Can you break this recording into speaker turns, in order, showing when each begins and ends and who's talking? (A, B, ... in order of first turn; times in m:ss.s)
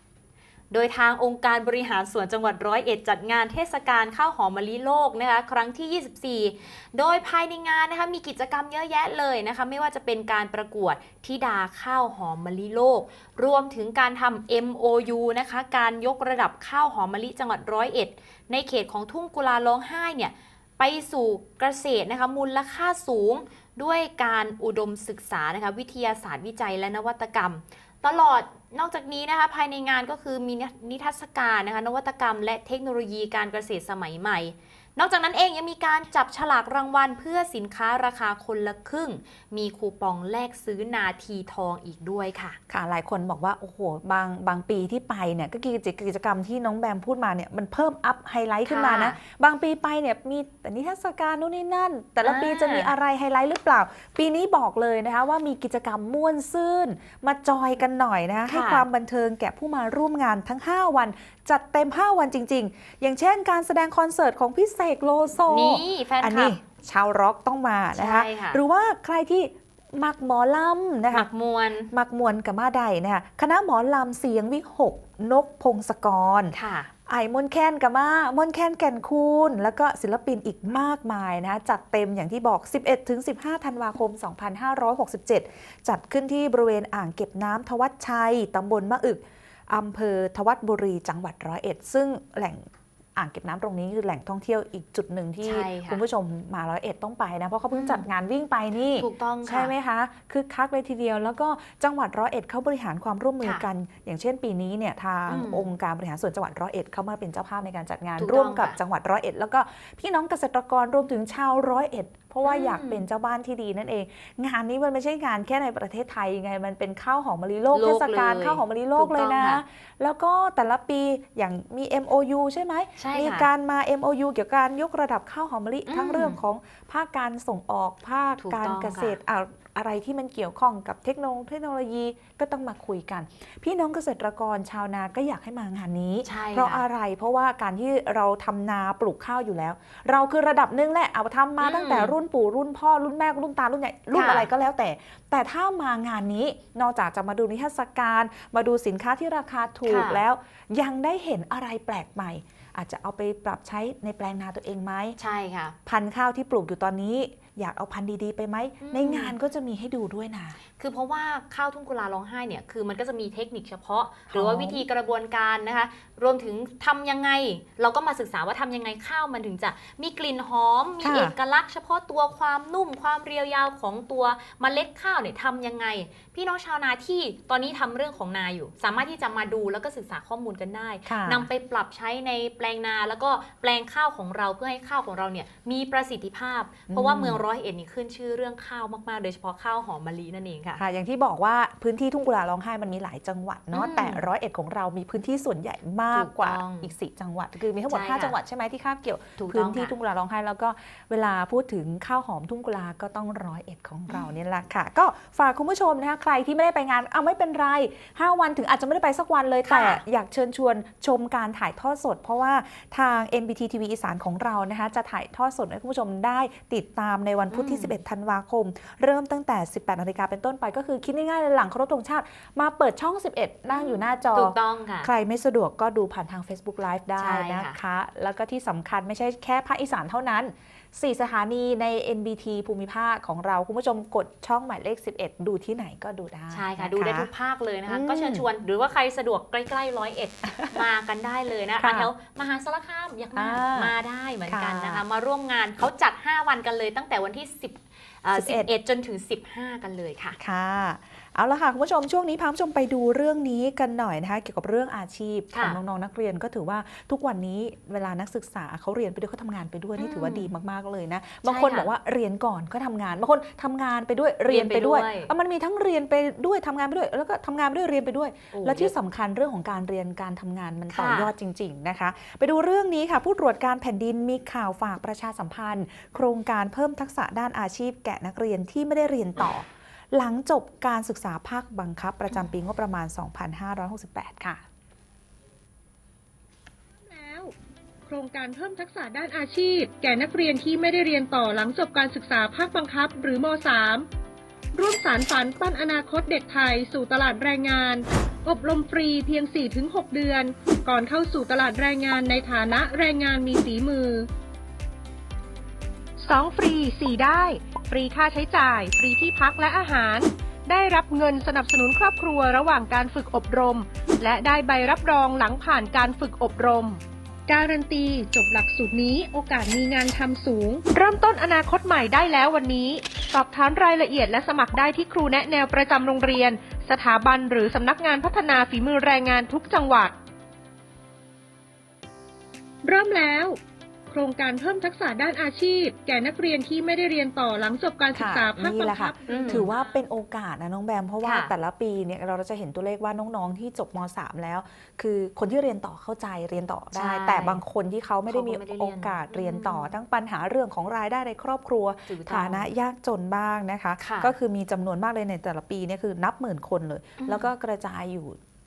0:00.7-0:42.6 A
0:42.7-1:11.3 B
0:48.7-0:49.2 A
0:52.2-0:52.9 A
0:58.5-0:58.8 A
1:05.5-1:06.6 A
1:08.0-1:08.6 A
1:11.1-1:11.9 A
1:11.9-1:16.6 B
1:16.5-1:16.9 A
1:17.1-2:35.2 B
1:35.4-1:36.0 A
1:37.7-1:38.0 A
1:39.0-1:39.7 A
1:45.3-1:45.7 A
1:48.2-1:48.8 A
1:52.4-1:53.0 A
1:57.7-1:59.6 A
2:03.0-2:03.5 A
2:05.9-2:06.4 A
2:08.4-2:09.2 A
2:16.3-2:16.8 A
2:21.6-2:22.1 A
2:24.1-2:24.5 A
2:29.9-2:30.2 A
2:35.2-2:35.8 A
2:35.9-2:40.6 B
2:38.8-2:39.4 A
2:40.8-3:10.8 A
2:44.3-2:44.8 B
2:51.0-2:51.4 B
3:01.1-3:01.5 B
3:06.9-3:07.4 B
3:10.8-3:57.3 B
3:13.7-3:14.2 A
3:16.1-3:16.9 A
3:17.9-3:18.4 A
3:19.4-3:19.9 A
3:29.7-3:30.0 A
3:37.5-3:37.9 A
3:43.7-3:45.1 A
3:47.2-3:47.8 A
3:56.5-4:10.4 A
3:57.9-3:58.4 B
4:01.8-4:02.1 B
4:03.4-4:03.9 B
4:04.5-4:05.0 B
4:08.4-4:08.7 B
4:10.4-4:44.6 B
4:15.5-4:15.8 A
4:20.0-4:20.5 A
4:21.4-4:21.9 A
4:24.5-4:25.3 A
4:28.5-4:28.9 A
4:30.9-4:31.3 A
4:47.0-4:47.5 C
4:48.1-4:54.1 C
4:54.8-5:04.3 C
5:06.2-5:30.2 C
5:32.8-5:33.6 C
5:34.1-5:39.7 C
5:38.1-5:58.4 B
5:39.3-5:39.9 A
5:41.2-5:41.5 A
5:47.0-5:47.6 A
5:48.3-5:49.9 A
5:52.1-5:52.7 A
5:54.0-5:54.3 A
5:57.2-5:57.5 A